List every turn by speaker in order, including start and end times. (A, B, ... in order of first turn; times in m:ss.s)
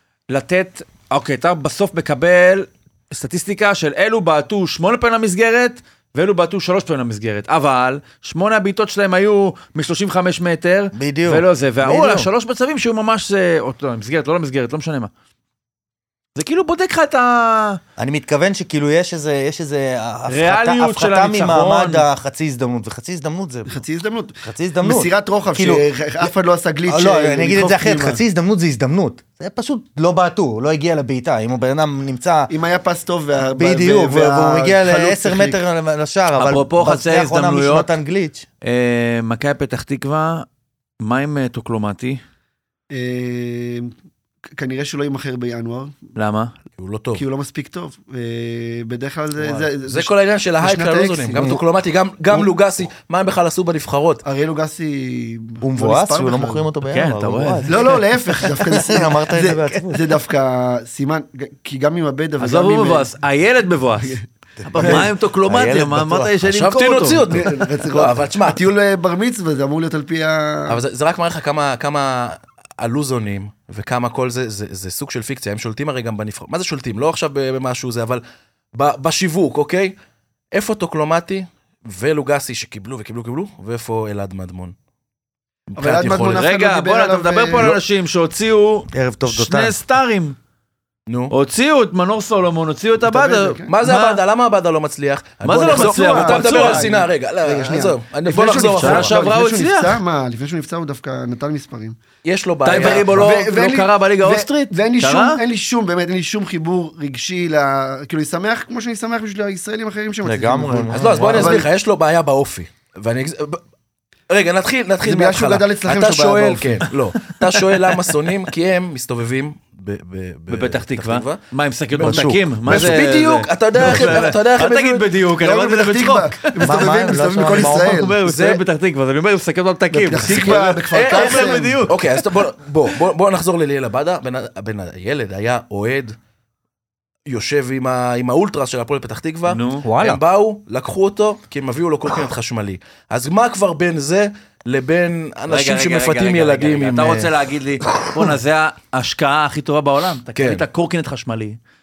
0:00.3-0:15.1 A
0:10.9-0:12.3 B
0:16.4-0:17.8 A
0:18.0-0:23.8 B
0:20.3-0:22.1 A
0:23.7-0:28.2 C
0:24.4-0:26.3 B
0:26.9-0:32.5 B
0:32.5-0:35.6 C
0:33.5-0:38.5 B
0:36.4-0:37.9 A
0:38.6-0:40.5 A
0:41.0-0:42.2 A
0:42.9-0:43.9 C
0:44.6-0:46.0 C
0:46.2-0:46.5 A
0:46.8-0:47.2 D
0:47.2-0:51.6 C
0:49.4-0:54.2 D
0:54.2-0:56.7 C
0:55.6-1:00.2 B
0:56.9-0:58.0 A
0:57.7-1:03.1 C
1:02.4-1:04.2 A
1:04.0-1:05.1 C
1:04.6-1:06.4 B
1:04.7-1:07.3 A
1:06.5-1:08.6 D
1:07.3-1:10.8 C
1:10.7-1:18.2 D
1:18.7-1:19.9 D
1:20.5-1:24.8 D
1:25.7-1:26.5 D
1:25.8-1:27.8 C
1:26.2-1:30.4 A
1:28.9-1:29.8 B
1:31.1-1:31.3 D
1:31.3-1:34.2 A
1:33.0-1:33.7 C
1:33.7-1:39.2 D
1:35.4-1:36.9 A
1:35.7-1:42.0 C
1:38.7-1:40.0 A
1:42.2-1:43.4 D
1:42.6-1:45.4 A
1:42.7-1:51.7 C
1:50.2-1:51.6 B
1:50.9-1:53.6 D
1:54.3-2:01.4 D
1:55.0-1:56.9 C
2:00.5-2:12.2 A
2:01.9-2:05.2 D
2:02.1-2:02.9 B
2:05.4-2:08.2 C
2:06.6-2:08.2 B
2:08.2-2:08.6 D
2:09.9-2:11.9 C
2:10.2-2:16.2 D
2:17.3-2:27.3 D
2:19.5-2:19.9 A
2:19.8-2:20.2 B
2:25.5-2:31.6 A
2:27.8-2:28.3 D
2:30.4-2:30.6 D